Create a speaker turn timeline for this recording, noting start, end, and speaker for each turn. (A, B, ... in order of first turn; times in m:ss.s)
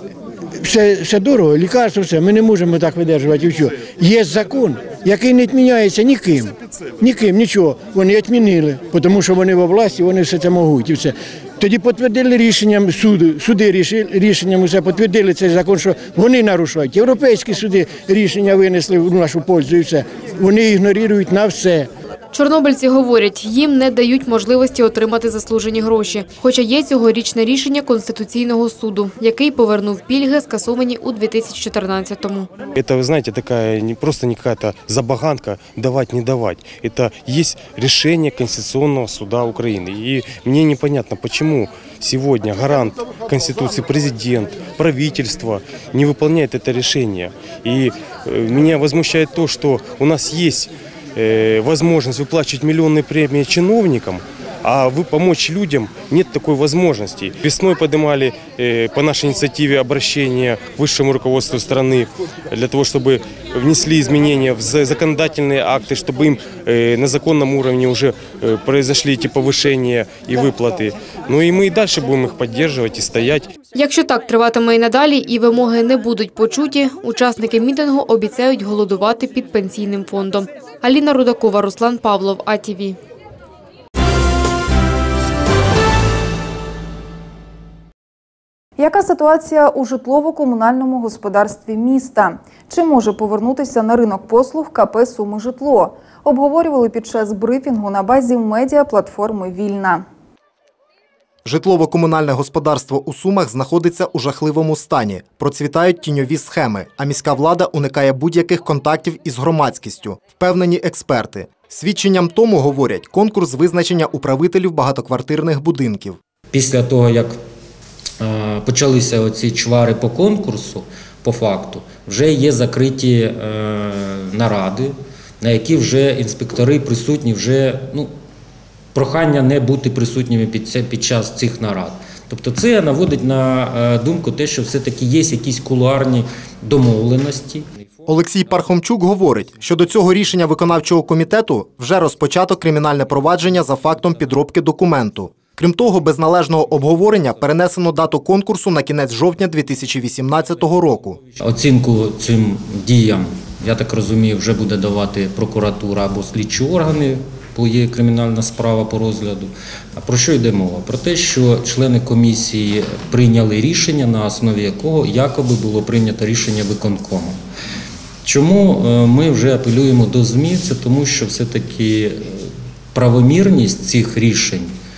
0:00.6-0:21.9 A
0:22.3-0:32.5 B
0:32.8-1:13.6 C
1:13.7-1:23.0 B
1:28.8-1:40.0 D
1:41.4-1:56.2 E
1:56.5-1:57.4 F
1:58.2-2:08.1 F
2:08.9-2:17.7 F
2:18.1-2:31.2 E
2:31.4-2:47.4 F
2:48.2-2:54.8 F